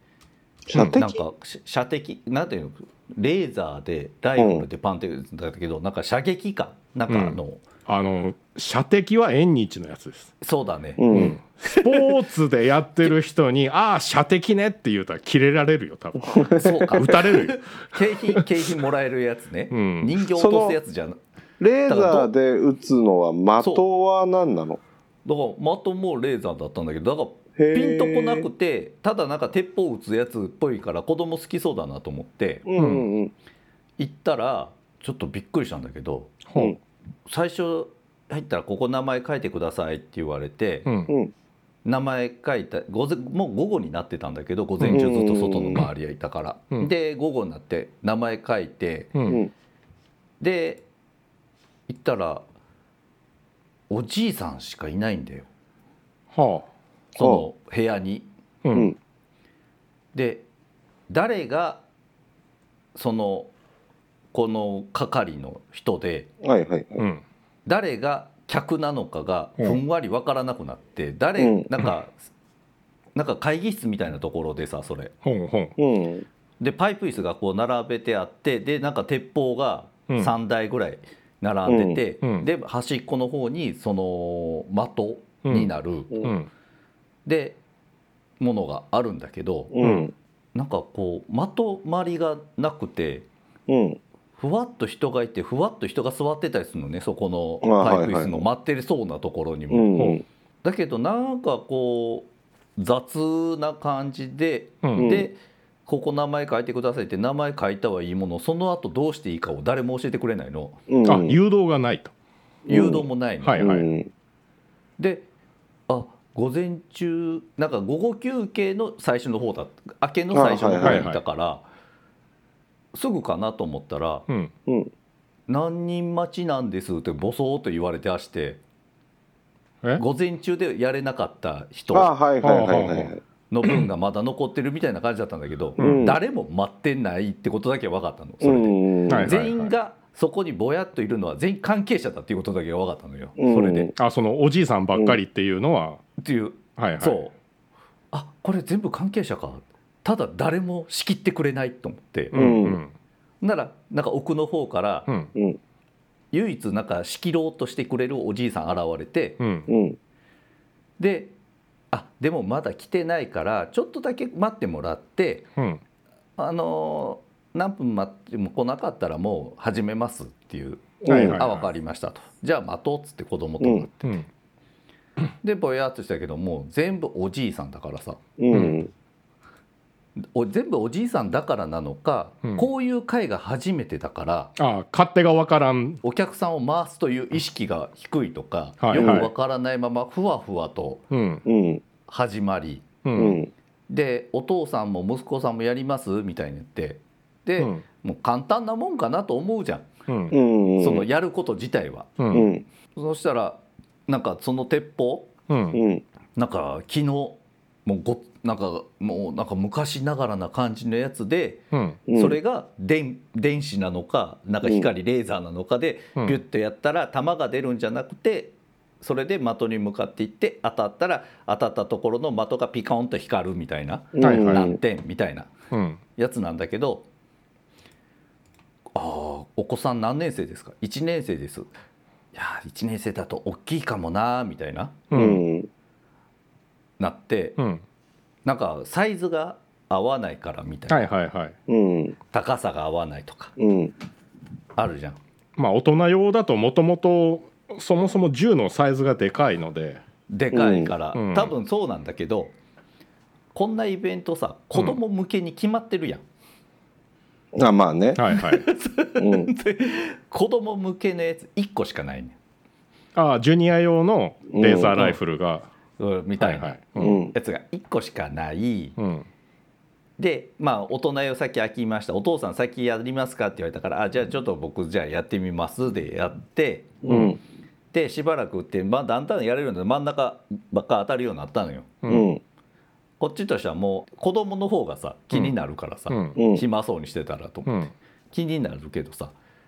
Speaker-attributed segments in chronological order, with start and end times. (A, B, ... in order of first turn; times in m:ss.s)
0:00.7-0:01.2 A
0:00.7-0:01.0 B
0:00.8-0:07.6 C
0:04.4-0:04.6 A
0:07.1-0:10.3 B
0:10.4-0:12.2 C
0:11.0-0:11.4 A
0:11.1-0:18.5 B
0:16.3-0:17.2 A
0:16.5-0:21.2 C
0:19.7-0:20.1 B
0:20.3-0:20.8 A
0:21.6-0:24.8 A
0:21.8-0:22.3 C
0:25.2-0:32.6 C
0:27.6-0:28.5 A
0:32.6-0:33.3 A
0:32.8-0:33.1 B
0:34.0-0:36.4 C
0:36.4-0:36.8 B
0:37.3-0:40.9 C
0:40.8-0:41.1 B
0:41.8-0:49.1 C
0:44.8-0:45.1 B
0:44.9-0:45.8 A
0:49.1-0:49.4 B
0:50.4-0:50.8 C
0:51.9-0:52.4 C
0:53.9-0:55.5 C
0:56.3-0:56.7 B
0:57.2-0:58.3 C
0:57.2-0:57.4 A
0:58.6-0:58.9 B
1:00.1-1:00.4 C
1:01.1-1:01.8 C
1:02.9-1:03.5 C
1:04.3-1:06.3 C
1:06.4-1:07.0 A
1:07.0-1:07.2 B
1:07.6-1:12.2 C
1:11.4-1:11.7 A
1:13.1-1:15.1 C
1:15.2-1:15.8 B
1:15.8-1:16.2 A
1:16.6-1:26.2 C
1:21.6-1:22.0 A
1:22.2-1:22.5 B
1:25.4-1:26.5 B
1:27.2-1:27.6 C
1:28.4-1:29.7 C
1:29.7-1:30.1 A
1:29.8-1:30.1 B
1:30.5-1:33.3 C
1:33.7-1:34.0 A
1:34.4-1:40.0 C
1:37.6-1:38.4 A
1:39.7-1:40.2 A
1:39.9-1:40.2 B
1:40.6-1:50.8 C
1:44.8-1:45.1 B
1:45.0-1:45.3 A
1:50.9-1:51.4 A
1:51.0-1:52.1 B
1:52.6-1:53.0 A
1:52.6-1:53.6 C
1:53.4-1:53.9 B
1:53.6-1:54.1 A
1:55.0-1:55.3 C
1:55.9-2:01.6 C
2:00.3-2:01.1 A
2:00.8-2:01.2 B
2:02.9-2:04.2 C
2:04.7-2:04.9 A
2:05.5-2:08.6 C
2:10.0-2:12.2 C
2:11.9-2:13.2 A
2:12.4-2:13.1 B
2:13.5-2:23.9 C
2:15.8-2:16.1 B
2:15.8-2:16.2 A
2:18.4-2:19.3 A
2:19.1-2:19.7 B
2:23.4-2:23.9 A
2:24.0-2:26.0 B
2:26.2-2:27.3 C
2:26.8-2:27.2 B
2:28.1-2:32.3 C
2:32.3-2:32.9 B
2:32.3-2:32.8 A
2:33.4-2:35.1 C
2:35.0-2:35.3 B
2:36.3-2:39.4 C
2:39.4-2:39.7 B
2:39.7-2:40.0 A
2:41.0-2:41.3 C
2:41.9-2:45.5 C
2:45.6-2:45.8 B
2:46.4-2:54.2 C
2:51.0-2:51.4 A
2:51.1-2:51.6 B
2:53.6-2:53.9 A
2:55.4-2:58.2 C
2:58.4-2:58.9 A
2:58.5-2:58.8 B
3:00.2-3:04.5 C
3:04.6-3:06.0 B
3:06.0-3:11.0 C
3:08.8-3:09.3 B
3:08.9-3:09.2 A
3:11.1-3:11.4 B
3:11.4-3:11.8 A
3:12.1-3:12.9 C
3:13.0-3:13.4 B
3:13.2-3:13.5 A
3:13.9-3:19.9 C
3:17.6-3:17.8 B
3:20.1-3:20.4 B
3:20.3-3:21.1 A
3:20.8-3:22.2 C
3:22.2-3:22.5 B
3:22.3-3:22.6 A
3:22.9-3:25.3 C
3:25.5-3:25.8 B
3:25.7-3:26.0 A
3:26.3-3:45.5 C
3:31.7-3:32.0 B
3:32.1-3:32.4 A
3:34.6-3:34.9 A
3:44.1-3:44.8 A
3:44.2-3:44.7 B
3:45.7-3:46.0 B
3:46.2-3:47.1 C
3:48.9-3:51.7 C
3:52.3-3:55.0 C
3:55.1-3:55.4 B
3:55.1-3:55.7 A
3:57.0-3:57.6 C
3:57.6-3:57.8 B
3:58.4-4:01.1 C
4:00.9-4:01.5 B
4:01.7-4:02.2 A
4:02.3-4:03.5 C
4:03.6-4:03.9 A
4:04.7-4:05.2 C
4:05.6-4:10.0 B
4:10.3-4:12.5 C
4:10.5-4:10.9 A
4:11.1-4:11.5 B
4:13.5-4:16.2 C
4:17.5-4:18.2 A
4:18.2-4:18.6 B
4:18.3-4:22.4 C
4:19.2-4:19.5 A
4:23.1-4:25.7 B
4:24.5-4:25.1 A
4:26.0-4:29.0 C
4:26.4-4:27.2 B
4:27.0-4:27.3 A
4:29.0-4:29.3 B
4:30.2-4:37.0 C
4:37.0-4:37.4 A
4:37.1-4:37.3 B
4:37.9-4:42.0 C
4:42.0-4:42.3 B
4:42.1-4:42.4 A
4:43.2-4:49.3 C
4:46.1-4:46.4 B
4:46.3-4:46.6 A